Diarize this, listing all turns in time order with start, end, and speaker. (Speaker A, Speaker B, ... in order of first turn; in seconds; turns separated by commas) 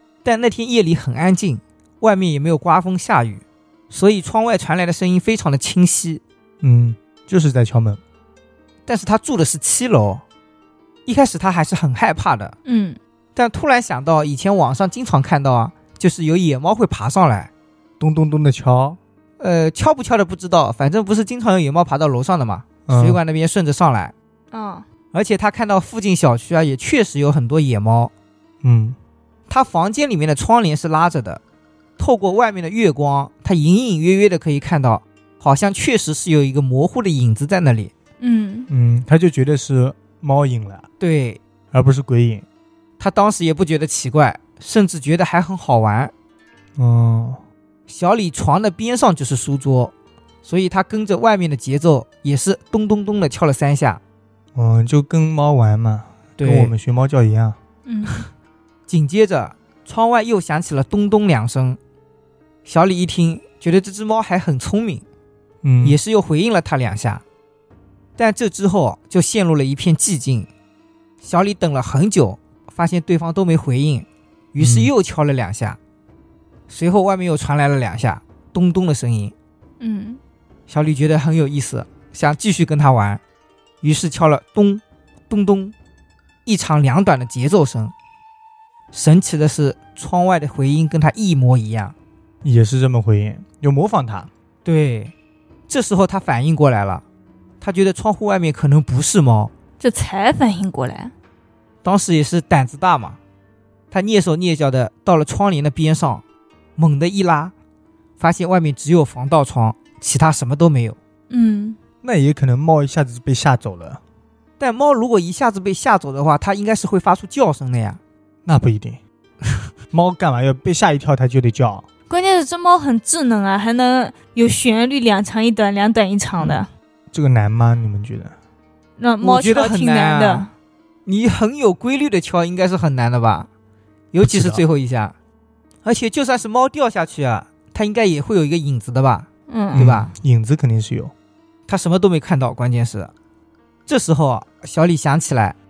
Speaker A: 0.2-6.2, Speaker B: 6.6-8.0, Speaker A: 8.9-10.2, Speaker A: 11.1-12.6, Speaker C: 12.6-13.0, Speaker A: 13.3-17.5, Speaker B: 18.0-19.0, Speaker A: 19.4-24.1, Speaker B: 22.9-23.2, Speaker C: 24.5-24.9, Speaker A: 25.1-28.1, Speaker B: 28.6-29.0, Speaker A: 29.5-31.4, Speaker A: 32.0-37.9, Speaker C: 38.2-38.7, Speaker B: 38.7-40.9, Speaker A: 41.0-41.4, Speaker B: 41.7-42.4, Speaker A: 43.0-46.1, Speaker B: 46.8-47.4, Speaker A: 47.9-49.9, Speaker A: 50.4-54.0, Speaker B: 54.5-57.6, Speaker A: 56.4-56.7, Speaker C: 57.9-58.2, Speaker A: 58.9-61.8, Speaker A: 62.6-65.0, Speaker B: 65.6-66.0, Speaker A: 65.8-67.2, Speaker A: 68.2-70.5, Speaker A: 71.2-75.8, Speaker B: 74.6-74.9, Speaker A: 76.7-79.3, Speaker C: 79.8-80.2, Speaker A: 80.7-83.2, Speaker A: 83.8-85.7, Speaker A: 86.5-87.9, Speaker A: 88.9-91.9, Speaker B: 92.4-94.3, Speaker A: 94.6-95.1, Speaker A: 95.7-97.0, Speaker A: 97.6-99.5, Speaker C: 99.8-101.1, Speaker A: 101.8-103.2, Speaker A: 103.9-106.2, Speaker A: 106.8-107.5, Speaker A: 108.2-111.0, Speaker C: 111.3-111.8, Speaker B: 112.0-114.0, Speaker A: 114.6-118.0, Speaker B: 118.5-119.0, Speaker B: 119.9-121.8, Speaker C: 122.1-126.7, Speaker B: 127.1-128.3, Speaker C: 129.0-130.5, Speaker A: 129.2-130.5, Speaker A: 131.1-133.5, Speaker A: 134.1-135.1, Speaker B: 134.2-134.6, Speaker A: 135.8-140.1, Speaker C: 139.5-139.9, Speaker B: 139.8-141.1, Speaker A: 141.7-143.1, Speaker A: 143.9-145.6